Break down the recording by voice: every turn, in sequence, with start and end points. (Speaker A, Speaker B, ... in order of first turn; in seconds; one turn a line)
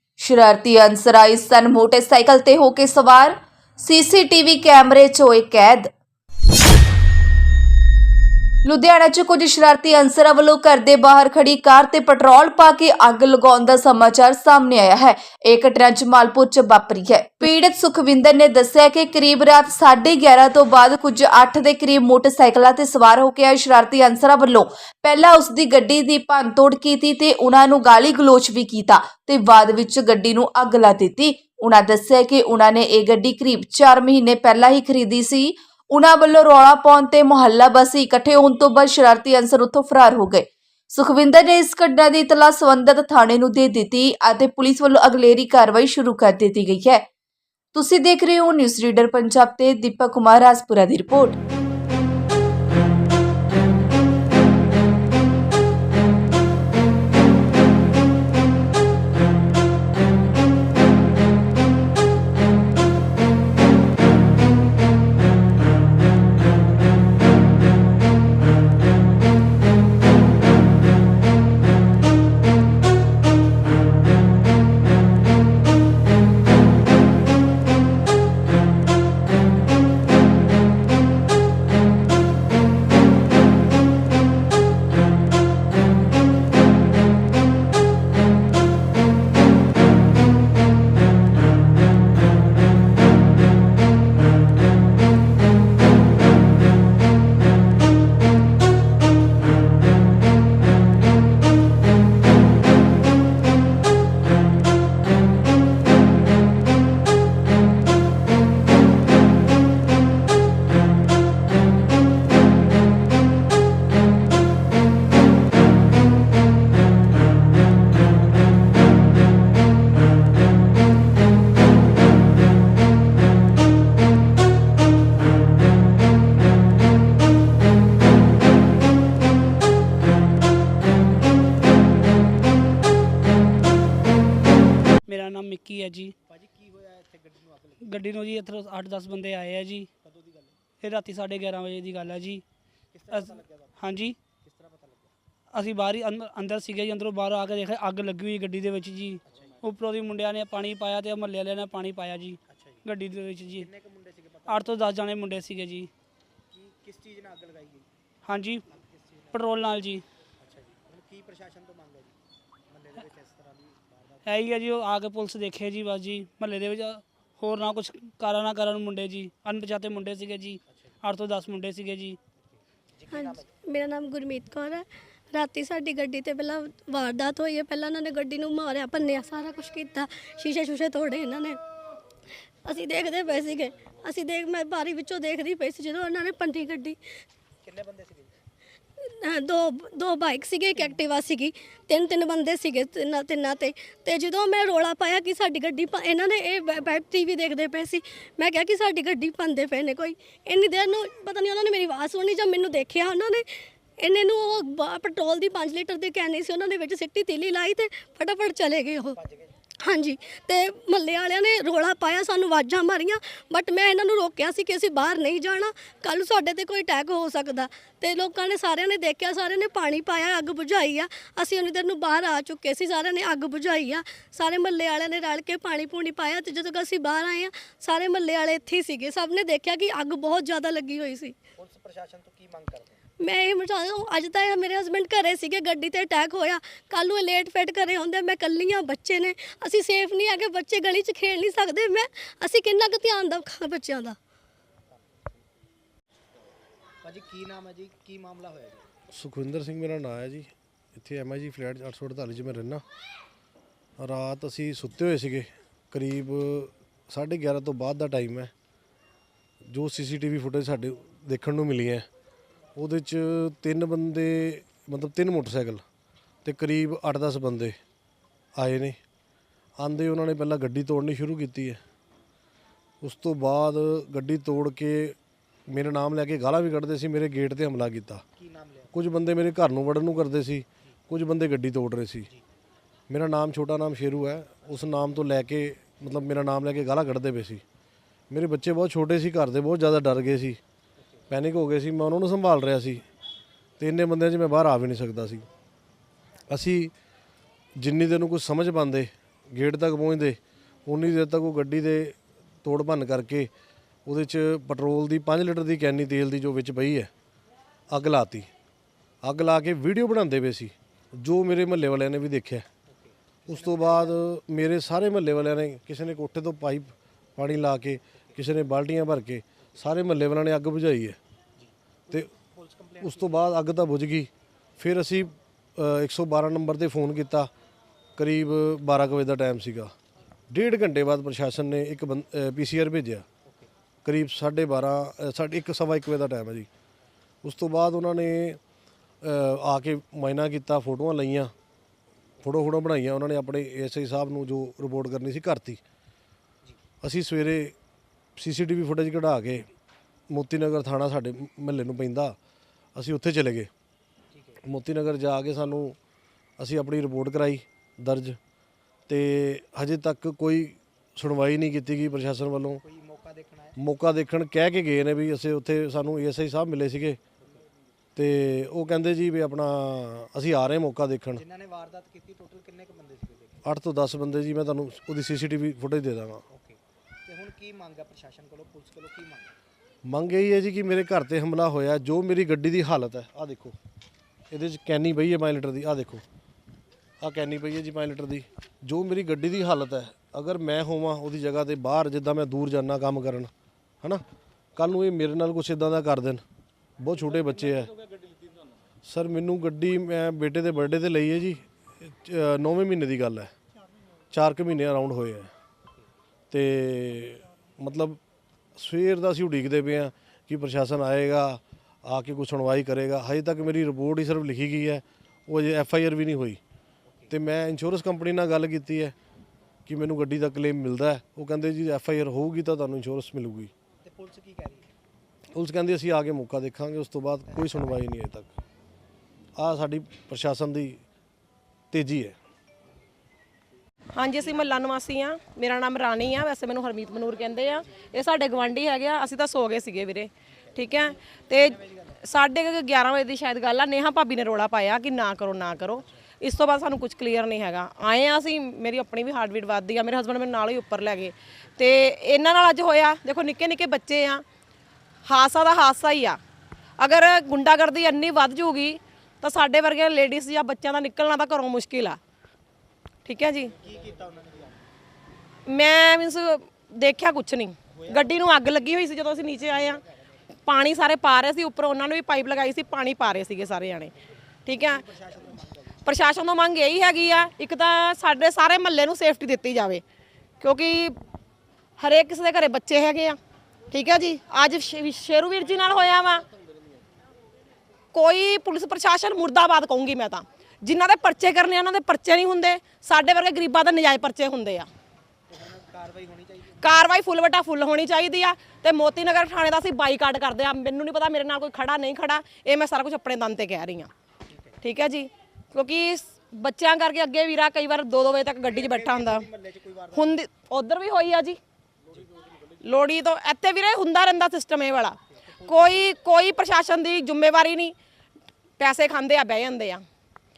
Speaker A: 0.2-5.9
Speaker A: 8.6-47.0
Speaker A: 47.7-51.4
Speaker B: 135.1-136.1
Speaker C: 136.3-138.3
Speaker B: 137.8-139.9
Speaker C: 140.0-140.6
Speaker B: 140.8-142.4
Speaker C: 142.9-145.2
Speaker B: 143.1-144.2
Speaker B: 145.5-153.7
Speaker C: 149.3-149.6
Speaker C: 152.5-152.9
Speaker C: 153.4-155.0
Speaker B: 154.5-155.9
Speaker C: 156.5-157.9
Speaker B: 158.3-158.6
Speaker C: 158.7-159.7
Speaker B: 159.3-160.1
Speaker C: 160.4-162.2
Speaker C: 162.7-164.5
Speaker B: 164.2-172.2
Speaker C: 170.7-171.0
Speaker C: 172.9-173.6
Speaker D: 173.1-181.6
Speaker D: 182.7-187.0
Speaker C: 187.6-188.3
Speaker D: 189.0-209.2
Speaker C: 209.2-209.5
Speaker D: 209.8-231.4
Speaker C: 231.6-233.0
Speaker D: 233.2-244.2
Speaker C: 247.0-248.9
Speaker E: 249.1-252.8
Speaker E: 254.0-258.5
Speaker E: 259.7-262.1
Speaker E: 262.8-265.8
Speaker E: 266.4-267.8
Speaker E: 268.6-269.0
Speaker E: 269.8-271.8
Speaker E: 273.0-275.2
Speaker E: 275.7-278.2
Speaker C: 278.4-279.0
Speaker E: 278.9-282.3
Speaker E: 283.1-287.6
Speaker E: 288.3-290.6
Speaker E: 291.3-293.0
Speaker E: 293.8-295.5
Speaker E: 296.5-296.9
Speaker E: 297.8-303.5
Speaker E: 304.1-307.1
Speaker E: 307.9-308.5
Speaker E: 309.2-312.7
Speaker C: 312.9-314.2
Speaker E: 313.5-321.2
Speaker C: 321.6-323.4
Speaker E: 323.0-327.5
Speaker E: 328.2-329.9
Speaker E: 330.5-333.2
Speaker E: 334.1-336.7
Speaker E: 337.4-338.6
Speaker E: 339.2-341.5
Speaker E: 342.4-345.8
Speaker E: 347.0-347.8
Speaker E: 348.4-349.7
Speaker E: 350.3-352.4
Speaker E: 352.9-353.7
Speaker C: 354.3-354.6
Speaker E: 354.6-356.0
Speaker E: 356.6-358.4
Speaker E: 359.1-362.8
Speaker C: 362.8-363.8
Speaker E: 363.8-367.2
Speaker E: 368.2-371.4
Speaker C: 371.4-373.6
Speaker E: 373.6-376.4
Speaker C: 376.5-379.6
Speaker E: 380.1-383.8
Speaker E: 384.5-386.2
Speaker E: 387.2-393.5
Speaker E: 394.8-396.4
Speaker E: 397.0-397.9
Speaker E: 399.1-403.5
Speaker E: 404.3-405.5
Speaker E: 406.5-408.2
Speaker E: 408.8-416.6
Speaker C: 417.1-417.3
Speaker E: 417.3-419.1
Speaker E: 419.9-423.7
Speaker C: 424.0-424.9
Speaker E: 425.5-428.5
Speaker C: 427.5-428.0
Speaker E: 429.6-431.0
Speaker E: 431.9-432.4
Speaker F: 434.2-454.4
Speaker C: 440.7-442.2
Speaker F: 455.3-456.4
Speaker F: 457.0-462.2
Speaker F: 463.2-463.8
Speaker C: 463.7-464.9
Speaker F: 465.7-470.0
Speaker C: 467.9-468.6
Speaker C: 469.6-470.0
Speaker F: 470.7-474.1
Speaker F: 474.7-475.1
Speaker C: 474.7-476.1
Speaker F: 476.1-480.0
Speaker F: 480.6-481.2
Speaker F: 482.0-483.4
Speaker F: 483.9-486.5
Speaker F: 488.1-494.9
Speaker C: 495.5-497.1
Speaker F: 496.8-504.1
Speaker C: 504.5-504.8
Speaker F: 504.8-509.5
Speaker C: 508.6-510.4
Speaker F: 510.1-511.6
Speaker F: 512.8-518.0
Speaker C: 515.3-516.1
Speaker F: 518.8-520.0